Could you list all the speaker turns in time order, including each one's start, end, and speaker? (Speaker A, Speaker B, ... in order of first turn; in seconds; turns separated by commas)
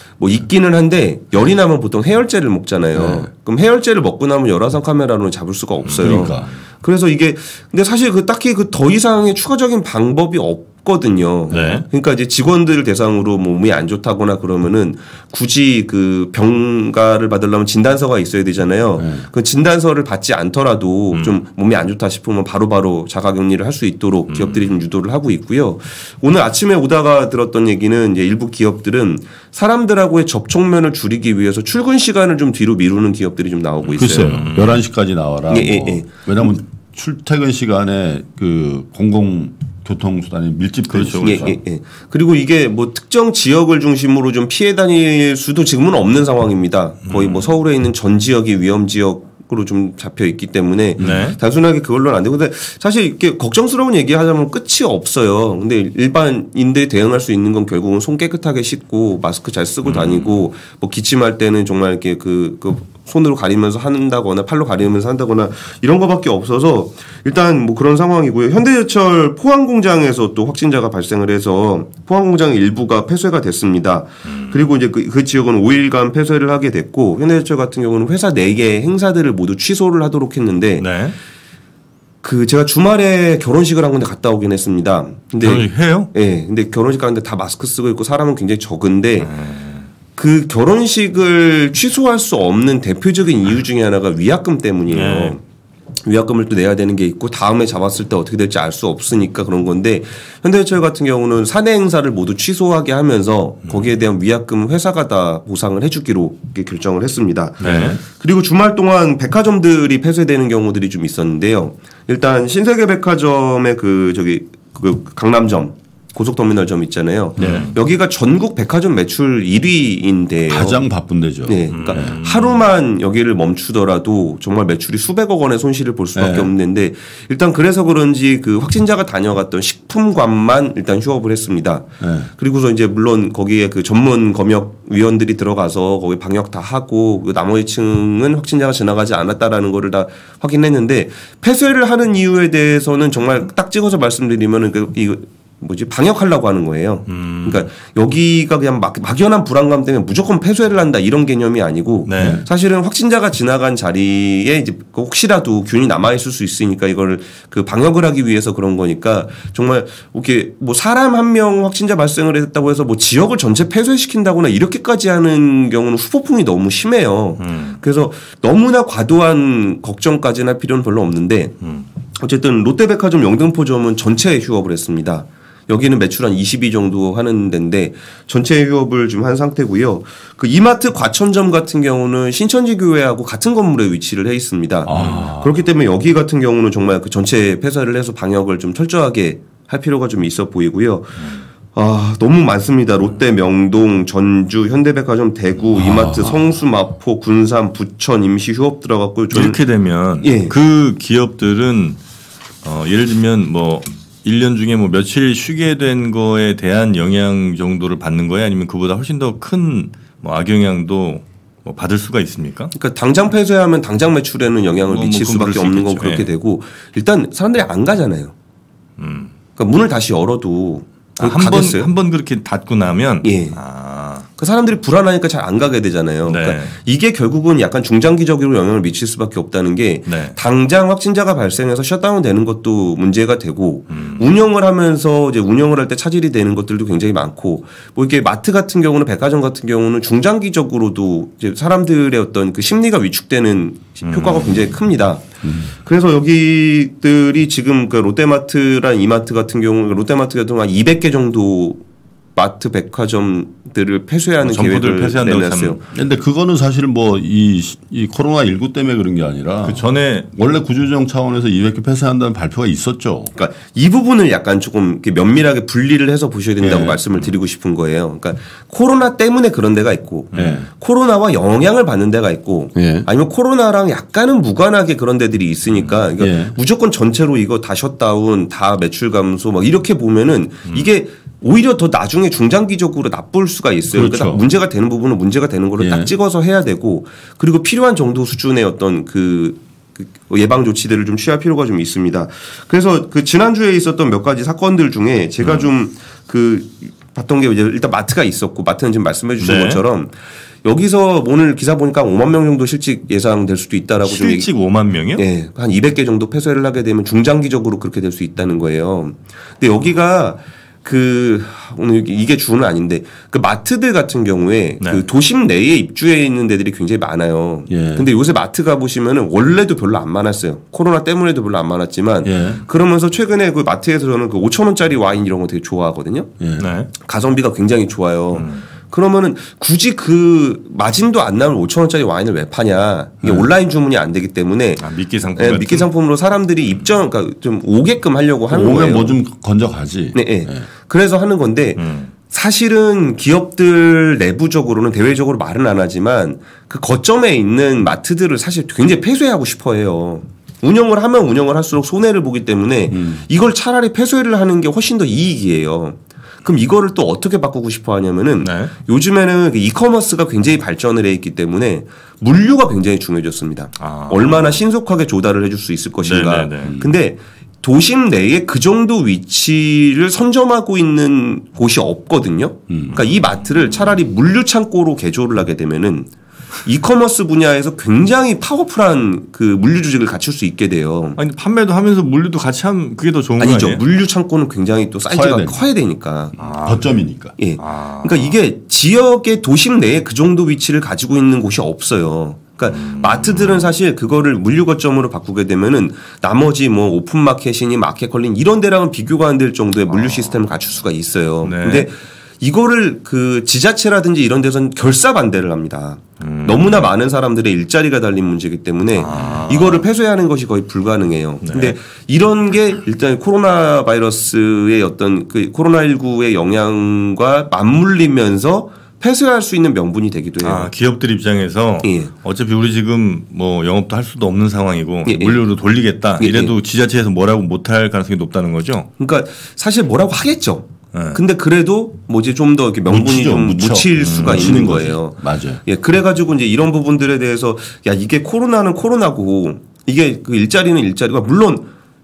Speaker A: 0.2-34.5, Speaker B: 2.9-3.3, Speaker C: 5.9-6.3, Speaker B: 6.0-6.5, Speaker B: 11.5-11.8, Speaker C: 11.5-11.8, Speaker B: 19.0-19.2, Speaker C: 21.1-21.4, Speaker C: 24.3-24.7, Speaker C: 33.9-34.8, Speaker B: 34.0-41.6, Speaker A: 35.5-36.1, Speaker C: 40.9-41.5, Speaker A: 41.2-80.8, Speaker C: 47.0-47.5, Speaker B: 51.0-51.3, Speaker C: 51.0-51.4, Speaker C: 59.8-60.4, Speaker C: 74.2-74.7, Speaker C: 80.8-81.1, Speaker A: 82.2-89.3, Speaker C: 85.4-86.1, Speaker C: 89.2-89.9, Speaker A: 90.2-95.4, Speaker C: 94.9-95.4, Speaker A: 96.0-120.8, Speaker B: 107.6-108.0, Speaker C: 107.6-108.0, Speaker B: 117.4-117.7, Speaker C: 117.4-117.7, Speaker B: 120.5-122.2, Speaker A: 121.4-171.5, Speaker C: 121.7-122.6, Speaker B: 126.1-126.5, Speaker B: 132.0-132.3, Speaker C: 147.1-147.7, Speaker C: 152.1-152.4, Speaker B: 152.2-152.4, Speaker C: 167.4-167.8, Speaker C: 171.6-171.8, Speaker A: 172.2-199.6, Speaker B: 184.8-185.6, Speaker C: 184.9-185.2, Speaker B: 195.7-196.4, Speaker C: 199.3-202.0, Speaker A: 200.2-200.5, Speaker C: 202.6-212.7, Speaker A: 212.7-218.3, Speaker C: 214.9-216.3, Speaker C: 219.0-219.3, Speaker A: 219.6-221.9, Speaker C: 221.2-224.3, Speaker A: 223.2-223.6, Speaker A: 224.4-251.8, Speaker C: 226.3-226.7, Speaker C: 230.1-230.3, Speaker C: 233.9-234.2, Speaker C: 244.0-244.7, Speaker B: 245.4-245.7, Speaker A: 252.3-255.8, Speaker C: 254.4-255.8, Speaker B: 255.9-263.3, Speaker C: 259.6-260.3, Speaker A: 263.3-304.5, Speaker B: 266.6-267.0, Speaker C: 270.3-270.6, Speaker B: 270.3-270.7, Speaker B: 272.7-273.1, Speaker C: 275.7-276.0, Speaker B: 276.2-276.6, Speaker B: 283.9-284.4, Speaker B: 285.8-286.1, Speaker C: 295.4-295.7, Speaker C: 299.4-299.8, Speaker C: 304.0-305.2, Speaker A: 305.2-326.3, Speaker B: 317.7-318.1, Speaker B: 322.2-322.6, Speaker B: 326.4-326.7, Speaker C: 326.6-326.9, Speaker A: 326.9-334.8, Speaker C: 328.3-328.6, Speaker B: 333.2-333.5, Speaker C: 334.8-335.9, Speaker A: 335.3-339.1, Speaker B: 338.5-340.6, Speaker A: 340.1-376.1, Speaker C: 341.8-342.1, Speaker B: 352.9-353.2, Speaker C: 358.4-358.7, Speaker C: 363.8-364.6, Speaker C: 366.0-366.7, Speaker B: 366.6-366.9, Speaker B: 372.7-373.0, Speaker A: 376.6-381.2, Speaker C: 381.2-383.8, Speaker A: 383.4-386.3, Speaker B: 385.1-385.7, Speaker C: 386.4-387.0, Speaker B: 386.6-387.4, Speaker A: 387.4-420.7, Speaker C: 387.6-388.3, Speaker C: 392.7-393.7, Speaker C: 400.0-400.4, Speaker C: 401.4-401.9, Speaker C: 406.2-406.9, Speaker C: 408.9-409.9, Speaker C: 411.4-411.8, Speaker C: 420.4-428.9, Speaker A: 421.8-422.1, Speaker A: 425.1-425.4, Speaker A: 426.2-426.5, Speaker A: 429.0-441.7, Speaker C: 430.9-431.2, Speaker B: 432.9-435.6, Speaker C: 434.1-434.6